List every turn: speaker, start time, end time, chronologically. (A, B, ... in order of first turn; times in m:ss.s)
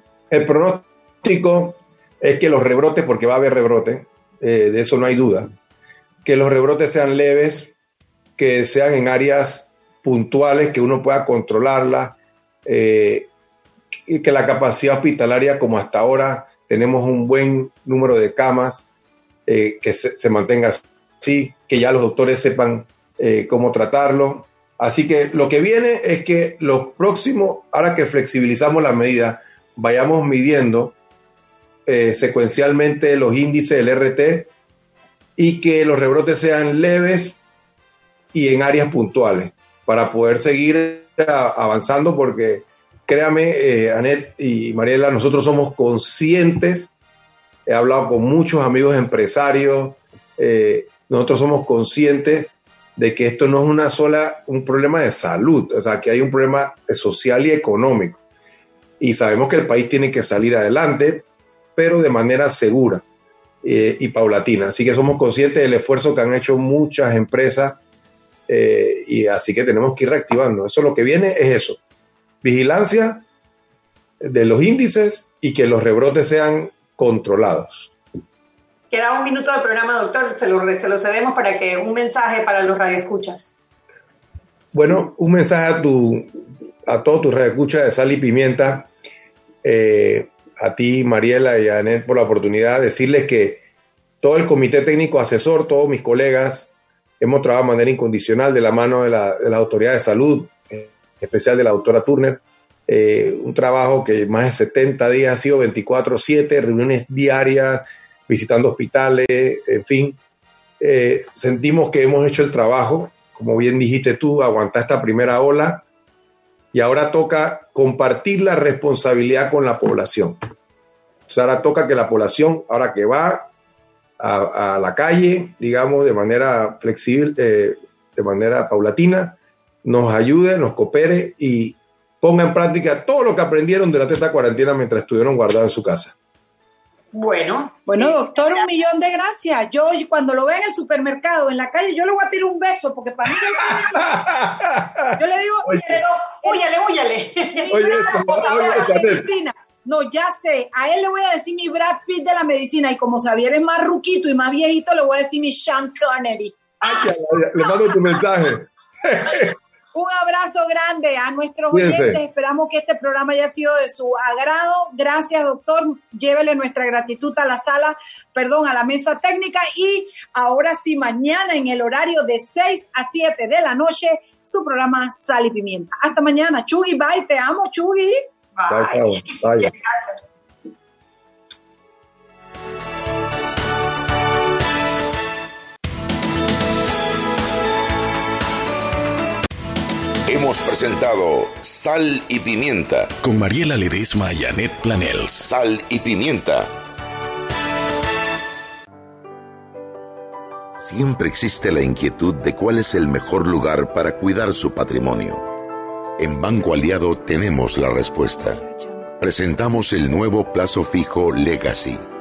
0:00.3-0:05.5 A
0:06.2-0:07.7 A
0:08.4-0:13.3 A
0:14.1-0:18.8 A
0:19.4-0:31.0 A
0:31.8-0:34.5 A
0:35.4-0:37.4 A
0:38.3-0:46.9 A
0:47.7-0:58.2 A
0:59.0-1:03.0 A
1:03.6-1:07.8 A
1:08.5-1:11.8 A
1:12.4-1:13.2 A
1:14.2-1:17.9 A
1:18.9-1:23.5 B
1:24.7-1:28.9 A
1:29.6-1:33.6 A
1:34.2-1:50.2 A
1:50.8-1:55.8 A
1:56.7-2:00.4 A
2:01.3-2:03.5 A
2:04.2-2:16.1 A
2:17.1-2:18.8 B
2:17.9-2:24.2 C
2:23.9-2:25.1 A
2:25.1-2:26.6 C
2:25.8-2:28.9 B
2:27.6-2:37.0 C
2:27.7-2:29.3 A
2:36.8-2:39.5 A
2:39.9-2:58.2 C
2:41.7-2:42.2 A
2:58.6-3:00.2 B
2:58.7-2:59.7 A
3:10.2-3:13.1 D
3:13.2-3:15.5 E
3:15.4-3:16.7 D
3:20.8-3:25.5 D
3:26.2-3:28.7 D
3:29.2-3:32.0 D